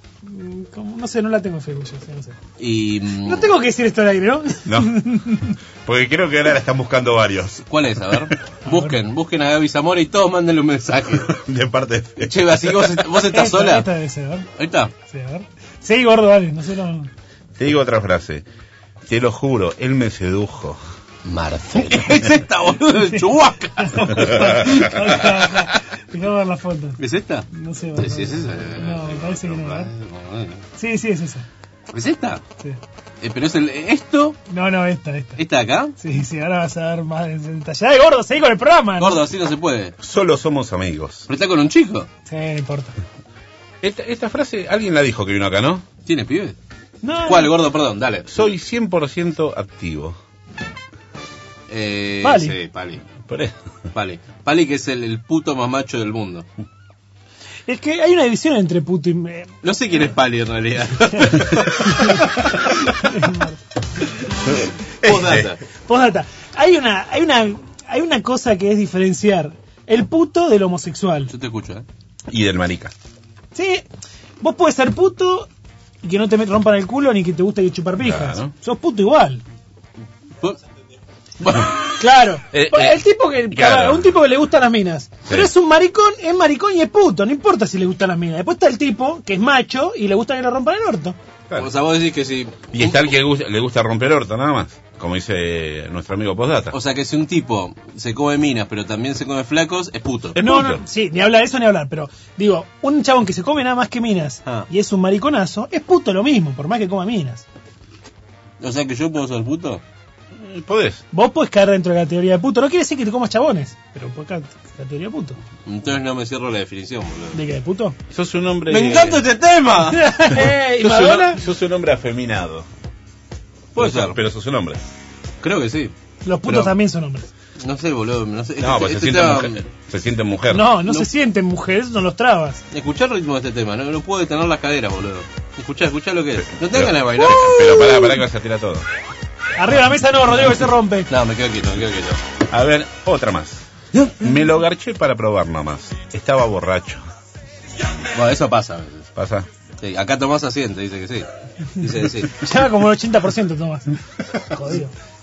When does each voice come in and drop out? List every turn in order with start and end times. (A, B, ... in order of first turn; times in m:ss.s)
0:00.2-0:02.4 A
0:02.6-0:03.5 B
0:03.2-0:05.5 A
0:04.6-0:05.0 C
0:05.8-0:07.6 C
0:07.7-0:11.3 B
0:08.6-0:08.9 A
0:11.2-0:13.0 C
0:12.3-0:13.9 B
0:13.3-0:14.5 A
0:14.6-0:14.9 B
0:15.1-0:17.1 A
0:17.6-0:18.4 C
0:19.0-0:20.8 C
0:21.3-0:24.4 B
0:23.8-0:27.0 A
0:27.0-0:30.6 B
0:27.5-0:29.9 A
0:30.8-0:31.4 A
0:31.9-0:32.4 B
0:33.2-0:34.4 B
0:34.5-0:35.4 A
0:35.4-0:36.0 B
0:36.0-0:39.2 A
0:39.0-0:40.0 B
0:40.0-0:41.3 C
0:41.3-0:42.1 B
0:42.3-0:43.0 A
0:43.8-0:45.8 C
0:46.0-0:46.6 B
0:47.0-0:47.5 A
0:47.2-0:48.4 B
0:48.3-0:50.2 C
0:51.7-0:53.0 B
0:52.2-0:52.6 A
0:53.3-0:53.5 C
0:53.9-0:56.4 B
0:57.7-0:59.5 A
0:59.6-1:02.0 B
1:01.1-1:03.6 A
1:05.0-1:05.5 C
1:05.0-1:05.6 B
1:05.9-1:11.3 A
1:11.3-1:11.8 B
1:12.3-1:12.9 C
1:13.5-1:13.9 A
1:14.4-1:15.5 A
1:16.0-1:19.4 A
1:18.0-1:18.5 C
1:21.4-1:21.8 B
1:22.0-1:31.2 A
1:22.5-1:24.2 C
1:31.6-1:33.0 B
1:32.7-1:36.7 C
1:36.7-1:40.4 B
1:40.4-1:40.8 C
1:40.4-1:47.4 A
1:48.6-1:49.8 B
1:50.4-1:51.0 C
1:51.1-1:55.4 A
1:55.6-1:57.4 B
1:57.3-1:58.0 A
1:58.1-1:59.2 C
1:58.7-2:00.1 B
1:59.9-2:01.4 A
2:00.4-2:02.7 C
2:03.7-2:04.2 B
2:03.8-2:04.8 C
2:05.4-2:05.9 B
2:06.2-2:07.3 A
2:06.5-2:06.7 B
2:07.6-2:09.6 B
2:08.6-2:10.8 C
2:10.5-2:12.6 A
2:12.7-2:17.8 B
2:16.6-2:18.9 C
2:19.6-2:21.1 A
2:21.1-2:22.2 B
2:22.5-2:23.6 C
2:24.2-2:27.0 C
2:28.1-2:29.1 B
2:29.2-2:29.5 C
2:29.8-2:31.3 B
2:31.8-2:32.4 B
2:32.3-2:33.9 A
2:34.5-2:34.9 A